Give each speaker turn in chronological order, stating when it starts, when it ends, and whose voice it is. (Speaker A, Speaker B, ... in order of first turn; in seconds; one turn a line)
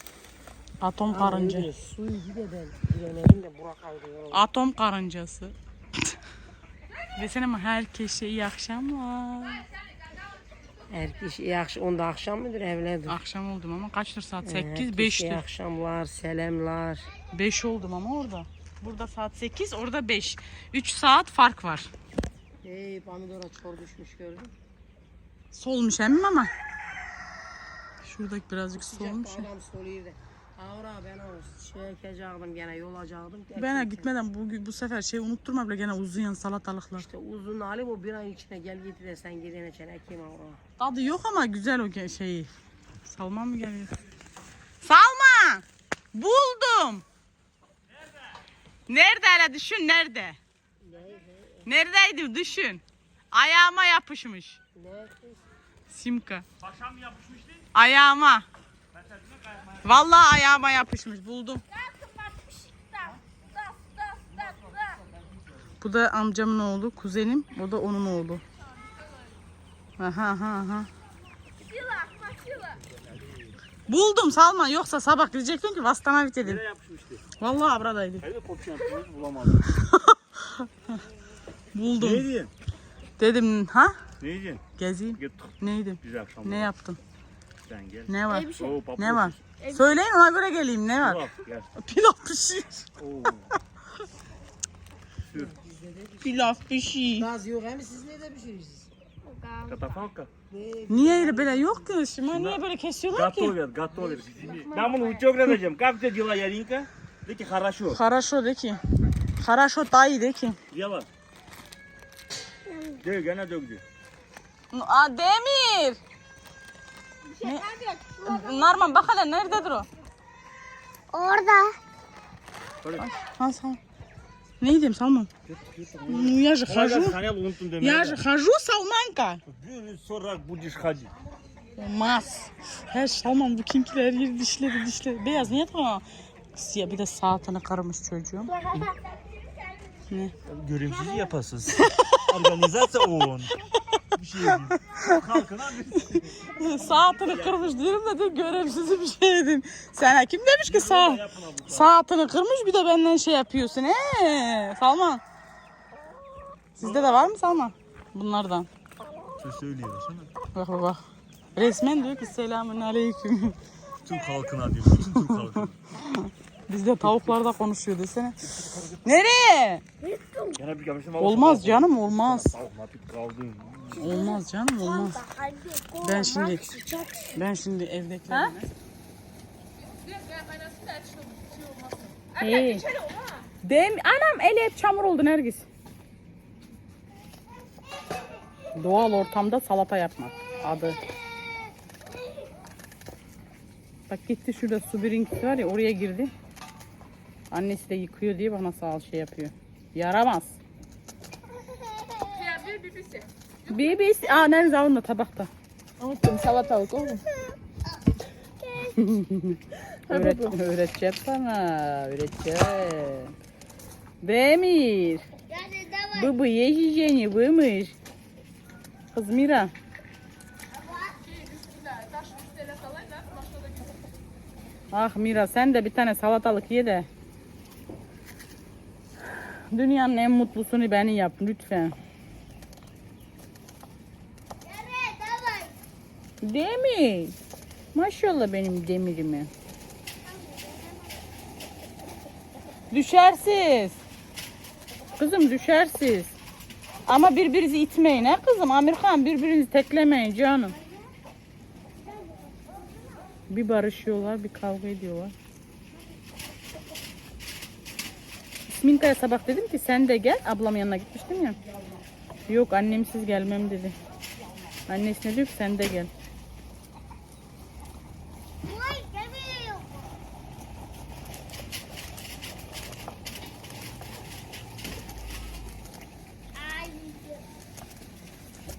Speaker A: 0.8-1.7
Speaker B: 1.1-4.4
Speaker A: 4.3-6.1
Speaker A: 7.2-9.7
Speaker B: 10.9-13.2
Speaker A: 13.1-15.4
Speaker B: 14.4-17.1
Speaker A: 17.3-21.9
Speaker B: 22.6-24.5
Speaker A: 25.5-26.5
Speaker A: 28.0-29.5
Speaker B: 28.7-34.1
Speaker A: 33.5-37.1
Speaker B: 37.0-40.6
Speaker A: 40.8-42.5
Speaker A: 43.0-44.0
Speaker A: 44.8-47.0
Speaker A: 48.9-50.4
Speaker B: 50.8-51.7
Speaker A: 51.6-54.6
Speaker B: 54.7-55.4
Speaker A: 55.9-56.5
Speaker C: 56.6-57.6
Speaker A: 57.7-58.5
Speaker C: 58.9-60.0
Speaker A: 59.8-61.6
Speaker D: 61.9-65.0
Speaker A: 65.8-68.4
Speaker D: 68.7-69.4
Speaker A: 70.0-70.9
Speaker D: 71.6-72.8
Speaker A: 73.9-76.6
Speaker C: 76.4-77.2
Speaker A: 77.4-78.2
Speaker C: 78.2-79.7
Speaker A: 79.7-81.0
Speaker A: 81.7-82.3
Speaker C: 82.0-82.5
Speaker A: 83.2-84.0
Speaker C: 84.2-84.6
Speaker A: 84.8-87.0
Speaker C: 85.2-86.7
Speaker C: 87.7-89.4
Speaker A: 88.1-91.2
Speaker E: 88.3-88.7
Speaker E: 89.6-89.9
Speaker C: 91.0-91.7
Speaker A: 91.8-92.9
Speaker C: 93.0-93.5
Speaker C: 95.3-95.5
Speaker B: 95.3-96.5
Speaker A: 96.2-97.3
Speaker B: 97.2-98.9
Speaker C: 99.7-100.3
Speaker B: 100.5-102.0
Speaker A: 100.9-103.6
Speaker C: 102.3-108.0
Speaker B: 103.9-105.3
Speaker A: 107.9-108.8
Speaker A: 109.4-110.6
Speaker C: 110.7-111.1
Speaker E: 112.7-113.0
Speaker C: 113.0-113.8
Speaker A: 114.7-116.0
Speaker A: 117.4-117.7
Speaker E: 117.8-118.6
Speaker A: 118.2-119.9
Speaker E: 121.1-121.8
Speaker A: 123.0-123.8
Speaker A: 124.6-125.3
Speaker C: 125.5-128.2
Speaker A: 126.1-127.2
Speaker A: 127.8-129.4
Speaker C: 129.5-131.1
Speaker A: 131.8-138.9
Speaker E: 138.7-138.9
Speaker C: 140.4-143.6
Speaker A: 141.8-142.6
Speaker C: 144.1-147.8
Speaker A: 144.4-145.2
Speaker A: 146.0-155.2
Speaker C: 150.7-151.9
Speaker A: 156.7-158.7
Speaker C: 156.8-157.2
Speaker C: 159.4-160.3
Speaker A: 160.5-161.0
Speaker A: 161.5-163.6
Speaker C: 164.0-165.8
Speaker A: 165.1-165.4
Speaker A: 166.0-169.8
Speaker C: 167.1-167.3
Speaker C: 168.4-169.0
Speaker E: 170.0-170.6
Speaker C: 170.6-174.2
Speaker A: 171.2-172.5
Speaker A: 173.9-175.2
Speaker E: 173.9-177.4
Speaker A: 176.0-176.6
Speaker A: 177.3-178.7
Speaker D: 179.8-183.5
Speaker A: 182.4-182.8
Speaker A: 183.6-185.7
Speaker A: 188.7-191.0
Speaker A: 194.1-196.3
Speaker A: 197.5-200.6
Speaker E: 202.0-202.3
Speaker D: 202.3-204.0
Speaker A: 203.7-205.5
Speaker D: 206.0-207.2
Speaker E: 208.6-209.1
Speaker A: 208.9-213.3
Speaker D: 210.1-210.6
Speaker A: 214.2-215.2
Speaker E: 215.5-216.3
Speaker A: 216.1-217.9
Speaker A: 219.1-219.7
Speaker E: 220.8-221.1
Speaker D: 221.2-223.9
Speaker A: 224.9-227.1
Speaker A: 229.4-231.9
Speaker E: 234.6-235.7
Speaker A: 236.4-237.3
Speaker A: 237.9-239.5
Speaker E: 240.3-241.1
Speaker A: 242.9-244.0
Speaker A: 245.2-246.3
Speaker A: 247.1-250.8
Speaker A: 253.5-255.3
Speaker A: 258.8-261.6
Speaker A: 262.5-263.9
Speaker A: 264.9-266.1
Speaker E: 268.6-270.1
Speaker E: 276.5-277.4